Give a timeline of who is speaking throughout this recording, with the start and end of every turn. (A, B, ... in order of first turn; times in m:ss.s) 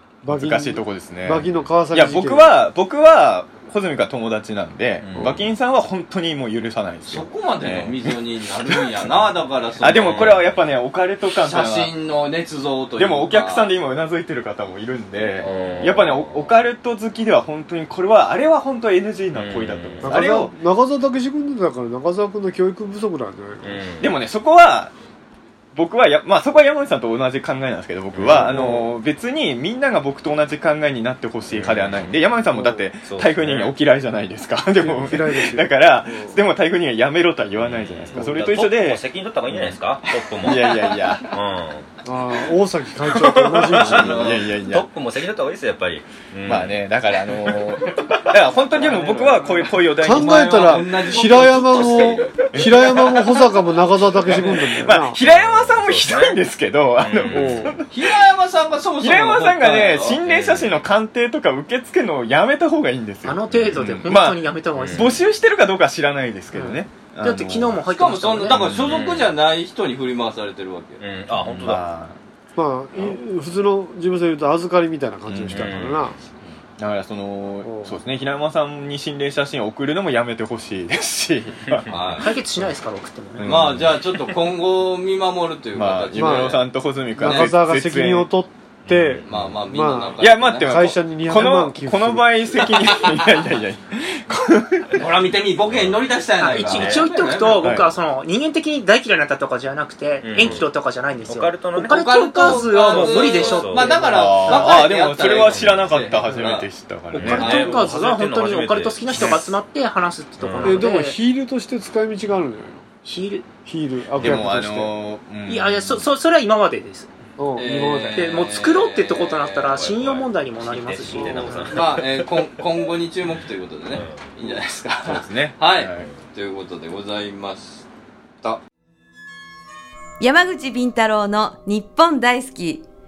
0:00.2-0:02.5 A
0:00.3-0:09.2 B
0:05.0-0:05.5 C
0:07.0-0:10.4 D
0:09.8-0:11.9 B
0:09.8-0:10.6 C
0:11.4-0:13.7 D
0:13.0-0:20.5 B
0:15.4-0:16.5 C
0:19.3-0:20.2 C
0:20.0-0:23.8 A
0:23.6-0:24.1 C
0:24.0-0:24.9 B
0:25.7-0:39.8 B
0:28.1-0:28.6 C
0:28.2-0:28.9 A
0:31.5-0:32.0 C
0:32.5-0:32.8 A
0:33.0-0:33.7 C
0:34.8-0:36.4 A
0:37.6-0:41.8 C
0:38.1-0:38.6 A
0:40.4-0:41.3 B
0:40.6-0:40.9 D
0:42.0-0:44.1 A
0:43.1-0:48.1 C
0:43.7-0:44.5 D
0:43.7-0:44.9 B
0:46.5-0:50.8 B
0:48.6-0:53.2 D
0:50.0-0:55.2 A
0:52.4-0:53.4 B
0:54.2-0:58.2 B
0:54.2-0:54.5 D
0:55.2-0:56.4 C
0:57.0-0:57.8 C
0:57.3-0:57.7 A
0:57.9-1:00.2 D
0:59.0-1:07.8 B
1:00.2-1:00.8 C
1:03.2-1:05.2 E
1:03.5-1:03.9 C
1:04.8-1:05.2 C
1:06.5-1:08.5 E
1:07.9-1:11.0 D
1:08.5-1:09.0 B
1:08.5-1:09.3 C
1:11.0-1:11.8 C
1:11.3-1:12.2 B
1:12.6-1:16.2 A
1:15.3-1:15.9 B
1:15.5-1:16.1 C
1:16.8-1:21.9 B
1:17.6-1:18.0 A
1:21.7-1:22.3 C
1:21.9-1:22.3 D
1:22.2-1:23.5 E
1:23.4-1:24.4 B
1:23.4-1:26.6 D
1:25.7-1:28.3 B
1:26.1-1:26.6 A
1:27.2-1:32.4 A
1:27.2-1:27.5 D
1:28.8-1:29.4 C
1:29.2-1:30.7 D
1:30.2-1:35.1 B
1:34.9-1:37.7 D
1:35.7-1:37.1 C
1:36.4-1:44.8 E
1:37.6-1:37.9 B
1:40.2-1:40.7 C
1:41.2-1:44.0 C
1:41.8-1:46.7 D
1:44.1-1:47.8 B
1:45.2-1:45.9 C
1:47.1-1:51.2 E
1:47.1-1:49.4 C
1:47.3-1:47.9 D
1:49.1-1:49.6 B
1:50.4-1:50.8 C
1:50.6-1:52.8 A
1:53.0-1:53.4 E
1:53.6-1:54.9 A
1:54.2-1:56.0 B
1:55.5-1:57.1 E
1:57.4-1:58.2 A
1:57.6-1:59.3 D
1:58.1-2:01.8 E
1:59.2-2:02.5 C
2:01.1-2:01.6 A
2:01.6-2:07.8 D
2:03.9-2:04.2 C
2:05.0-2:06.1 B
2:10.2-2:12.8 F